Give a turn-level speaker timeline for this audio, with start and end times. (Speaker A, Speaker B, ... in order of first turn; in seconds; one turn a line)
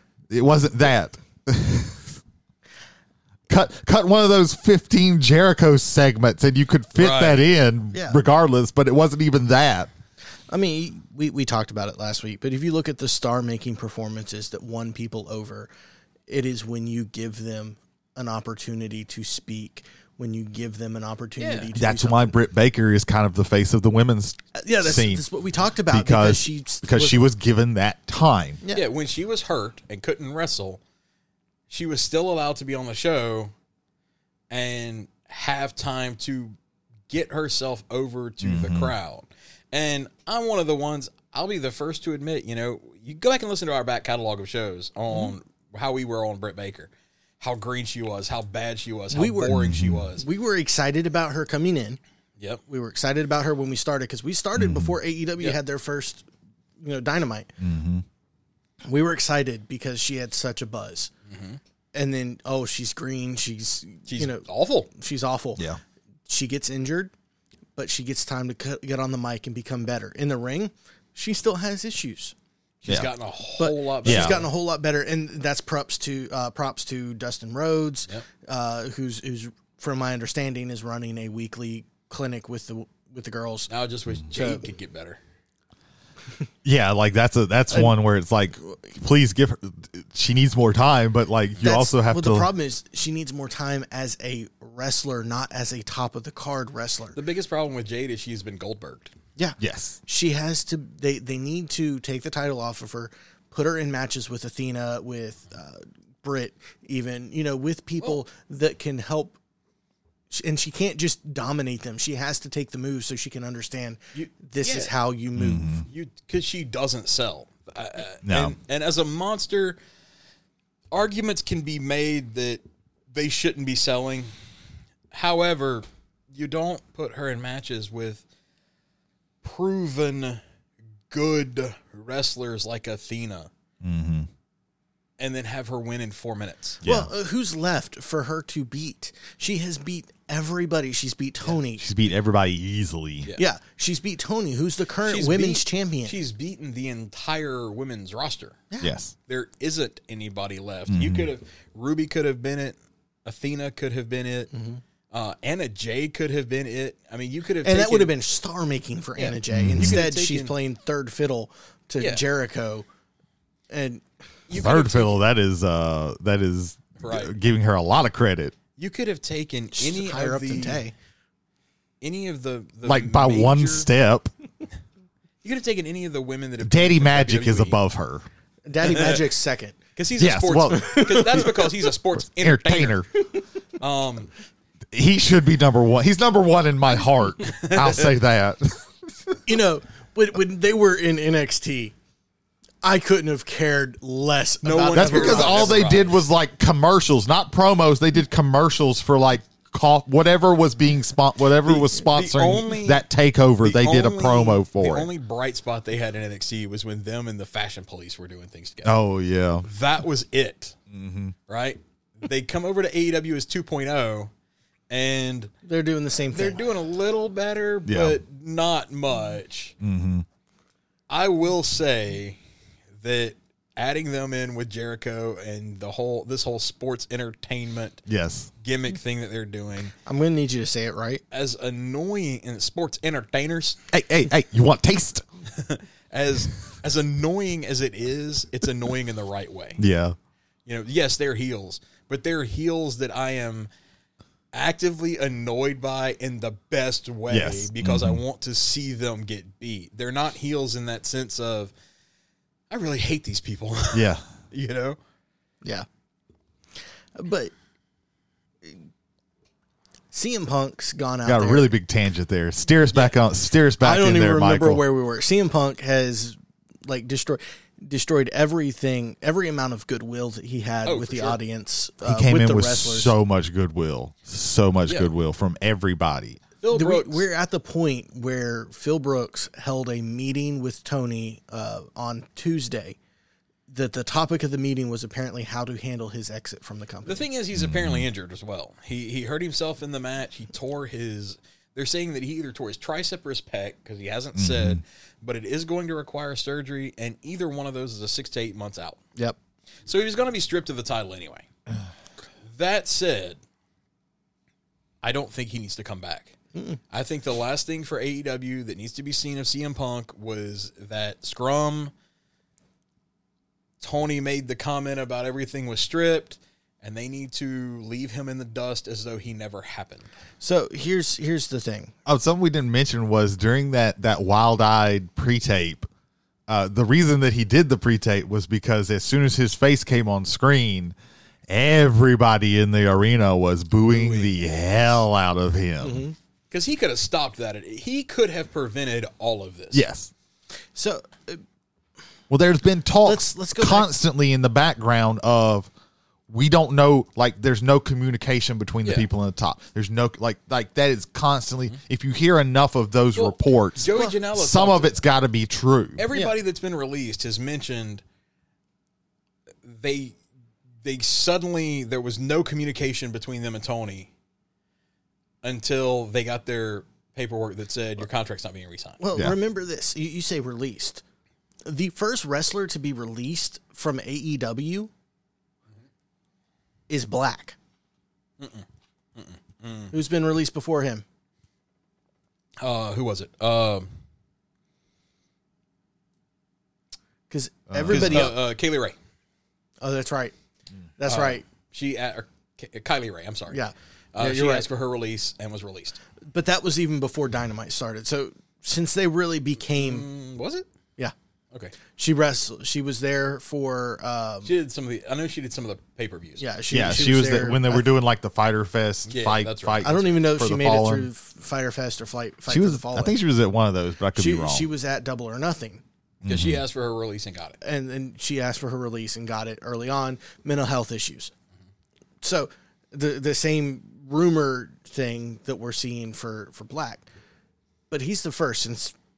Speaker A: 0.3-2.2
Speaker A: 3.5-9.9
Speaker B: 7.0-7.5
Speaker C: 7.9-8.2
Speaker C: 10.5-15.7
Speaker C: 16.3-22.4
Speaker B: 21.4-21.7
Speaker A: 21.8-25.2
Speaker C: 24.6-27.2
Speaker A: 25.9-28.6
Speaker B: 28.7-30.8
Speaker B: 31.7-33.5
Speaker B: 34.5-36.6
Speaker B: 37.1-50.3
Speaker A: 38.4-38.9
Speaker C: 49.1-52.0
Speaker A: 49.5-50.1
Speaker C: 52.7-56.2
Speaker A: 54.6-55.0
Speaker C: 56.8-57.5
Speaker A: 57.6-58.0
Speaker C: 58.9-61.1
Speaker B: 61.3-61.6
Speaker C: 61.9-65.7
Speaker B: 64.1-64.9
Speaker C: 66.3-67.1
Speaker C: 67.8-72.3
Speaker B: 72.8-74.5
Speaker C: 73.6-83.7
Speaker A: 74.0-74.4
Speaker B: 83.7-85.2
Speaker C: 84.3-84.7
Speaker A: 86.6-92.5
Speaker C: 91.6-97.2
Speaker B: 97.2-99.1
Speaker C: 99.4-109.4
Speaker A: 99.6-100.0
Speaker C: 110.3-115.8
Speaker B: 114.1-114.9
Speaker A: 115.4-115.9
Speaker B: 115.9-119.8
Speaker A: 118.2-118.6
Speaker B: 120.9-124.3
Speaker B: 125.1-128.2
Speaker B: 129.4-130.4
Speaker B: 131.1-133.5
Speaker A: 133.8-134.3
Speaker B: 135.2-136.8
Speaker A: 136.8-137.1
Speaker C: 136.9-141.9
Speaker A: 141.8-143.3
Speaker C: 143.4-146.2
Speaker B: 145.1-148.6
Speaker C: 148.7-149.0
Speaker A: 148.8-149.1
Speaker B: 149.3-154.5
Speaker A: 150.9-151.3
Speaker C: 154.5-154.8
Speaker B: 155.1-158.1
Speaker C: 157.6-162.8
Speaker B: 159.2-160.6
Speaker A: 159.5-160.0
Speaker B: 162.0-162.2
Speaker C: 163.7-164.0
Speaker B: 164.5-165.2
Speaker A: 164.5-168.6
Speaker B: 167.0-167.3
Speaker B: 168.8-170.9
Speaker C: 169.8-170.9
Speaker B: 172.0-173.9
Speaker A: 172.8-174.3
Speaker B: 175.4-177.8
Speaker A: 176.6-178.3
Speaker C: 178.7-179.8
Speaker B: 178.8-179.2
Speaker B: 179.9-183.0
Speaker A: 180.2-181.4
Speaker C: 180.7-181.7
Speaker A: 182.2-183.1
Speaker B: 183.8-184.3
Speaker A: 184.9-189.4
Speaker B: 187.4-188.1
Speaker C: 189.4-191.9
Speaker C: 192.8-195.9
Speaker B: 194.6-196.2
Speaker A: 194.9-205.1
Speaker B: 201.7-203.0
Speaker B: 203.6-209.0
Speaker A: 208.8-209.7
Speaker B: 209.6-210.8
Speaker A: 210.9-211.3
Speaker B: 211.5-214.3
Speaker B: 214.9-215.5
Speaker C: 215.7-216.7
Speaker B: 216.3-219.8
Speaker A: 217.9-218.2
Speaker A: 219.8-220.3
Speaker B: 221.1-222.4
Speaker B: 223.0-228.0
Speaker A: 228.1-228.5
Speaker B: 228.6-229.9
Speaker C: 230.1-231.2
Speaker B: 231.3-233.8
Speaker A: 233.9-235.2
Speaker B: 235.5-239.8
Speaker A: 239.8-240.2
Speaker B: 240.7-243.7
Speaker B: 244.5-251.7
Speaker A: 247.3-248.2
Speaker B: 252.7-255.0
Speaker A: 253.9-254.2
Speaker C: 257.2-257.5
Speaker C: 260.1-261.7
Speaker A: 261.3-264.8
Speaker C: 263.8-273.1
Speaker B: 270.9-271.4
Speaker A: 272.0-276.4
Speaker B: 276.6-277.3
Speaker C: 276.7-283.0
Speaker C: 283.7-287.2
Speaker B: 287.1-299.0
Speaker A: 287.6-288.1
Speaker A: 294.4-294.8
Speaker B: 299.9-301.5
Speaker B: 302.5-303.4
Speaker B: 305.0-306.4
Speaker C: 306.6-306.8
Speaker B: 306.9-311.9
Speaker B: 313.8-320.1
Speaker C: 320.4-321.9
Speaker A: 322.1-325.9
Speaker A: 326.5-330.9
Speaker A: 331.5-336.0
Speaker B: 333.8-334.7
Speaker C: 335.8-336.2
Speaker B: 336.5-339.9
Speaker A: 339.7-340.1
Speaker C: 340.8-341.4
Speaker A: 342.3-345.7
Speaker C: 343.1-343.9
Speaker A: 346.3-356.1
Speaker B: 353.1-355.0
Speaker B: 356.0-358.0
Speaker B: 359.6-360.2
Speaker B: 360.8-364.1
Speaker B: 365.4-369.0
Speaker C: 369.0-371.0
Speaker C: 371.6-374.9
Speaker C: 376.9-377.6
Speaker B: 378.4-379.9
Speaker C: 379.9-381.0
Speaker B: 382.6-383.9
Speaker C: 387.3-388.4
Speaker A: 387.7-388.4
Speaker B: 387.9-389.0
Speaker C: 389.8-390.4
Speaker C: 391.0-391.4
Speaker B: 391.1-393.6
Speaker C: 393.5-394.7
Speaker B: 394.1-396.0
Speaker C: 396.3-400.1
Speaker B: 399.8-400.7
Speaker C: 401.9-404.5
Speaker B: 404.4-406.5
Speaker C: 406.4-407.9
Speaker A: 406.7-411.1
Speaker B: 409.1-410.1
Speaker C: 409.8-413.2
Speaker A: 412.5-414.7
Speaker C: 414.1-415.8
Speaker A: 416.2-416.6
Speaker B: 416.2-417.6
Speaker C: 417.6-421.3
Speaker C: 422.2-427.1
Speaker C: 427.9-428.9